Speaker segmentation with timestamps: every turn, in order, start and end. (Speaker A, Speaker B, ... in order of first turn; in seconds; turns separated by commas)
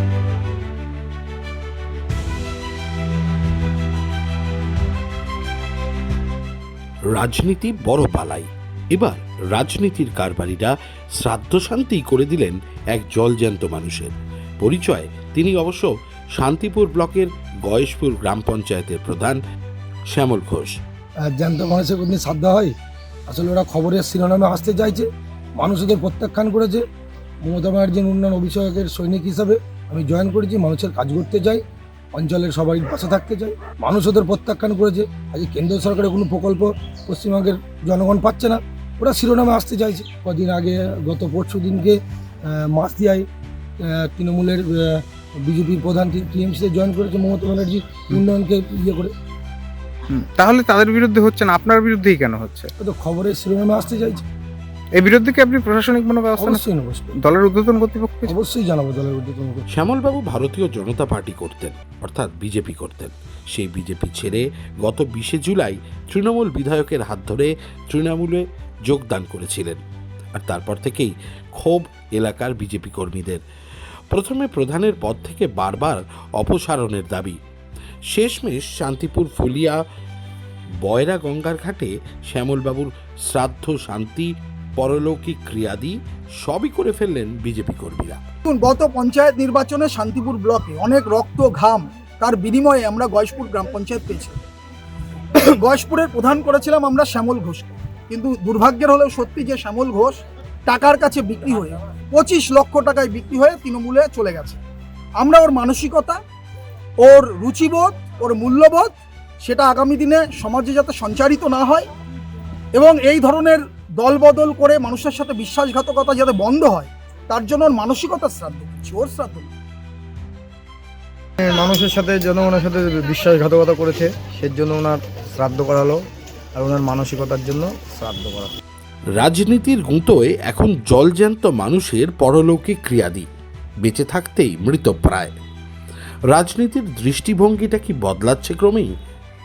Speaker A: 7.1-19.4, Speaker A: 20.1-20.8, Speaker B: 21.3-22.7, Speaker B: 23.3-25.1, Speaker B: 25.6-26.8, Speaker B: 27.4-31.6, Speaker B: 32.1-43.2, Speaker B: 43.8-49.1, Speaker C: 50.1-52.7, Speaker B: 52.8-54.2, Speaker C: 54.9-56.6, Speaker B: 56.4-57.2, Speaker C: 57.2-58.3, Speaker B: 58.2-59.7, Speaker A: 59.7-69.8, Speaker A: 70.3-73.4, Speaker A: 74.1-77.4, Speaker A: 78.1-79.8, Speaker A: 80.8-88.2, Speaker D: 88.4-94.3, Speaker D: 95.3-100.2, Speaker D: 100.7-104.6, Speaker D: 105.2-106.2, Speaker D: 107.0-108.9, Speaker D: 109.5-111.8, Speaker D: 112.8-119.5, Speaker E: 121.4-128.5, Speaker A: 129.2-133.3, Speaker A: 133.8-135.3, Speaker A: 136.3-138.9